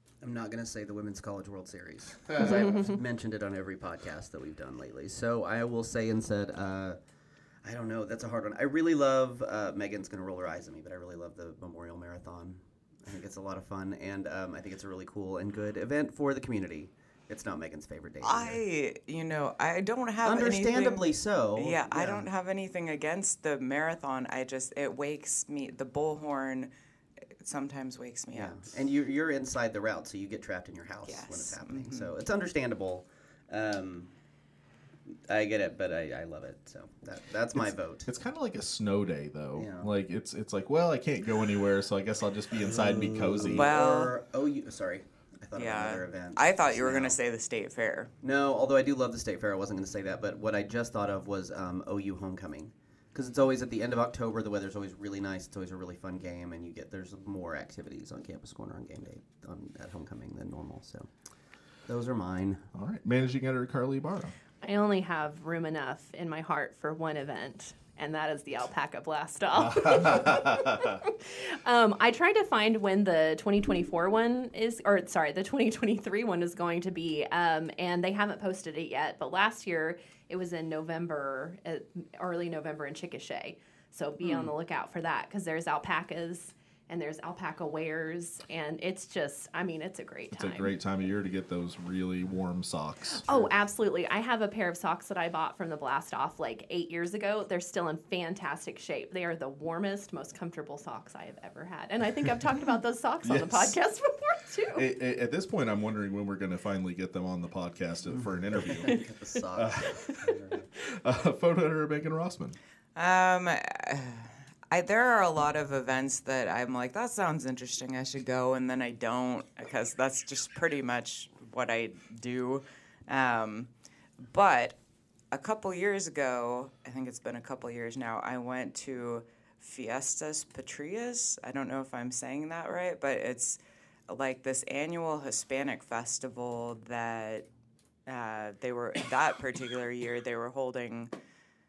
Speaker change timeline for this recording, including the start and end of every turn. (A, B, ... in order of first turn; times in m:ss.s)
0:00.2-0:07.0 A
0:02.4-0:02.9 B
0:07.6-0:18.6 A
0:18.2-0:26.7 C
0:20.2-0:22.3 A
0:27.4-0:28.8 C
0:28.3-0:34.1 A
0:31.0-0:32.1 C
0:35.1-0:38.1 A
0:37.5-0:43.7 D
0:39.5-0:39.9 A
0:42.6-0:47.2 A
0:43.5-0:44.1 C
0:45.5-0:48.1 C
0:48.2-1:01.1 A
1:01.9-1:02.7 A
1:02.7-1:04.3 D
1:04.6-1:30.7 B
1:09.6-1:11.0 D
1:30.3-1:33.3 D
1:33.1-1:44.8 B
1:43.2-1:43.8 D
1:44.7-1:49.0 D
1:48.1-1:50.7 A
1:49.5-1:50.2 D
1:50.8-1:52.6 D
1:53.0-2:03.7 C
2:04.2-2:04.8 C
2:05.3-2:17.5 C
2:18.1-2:21.1 C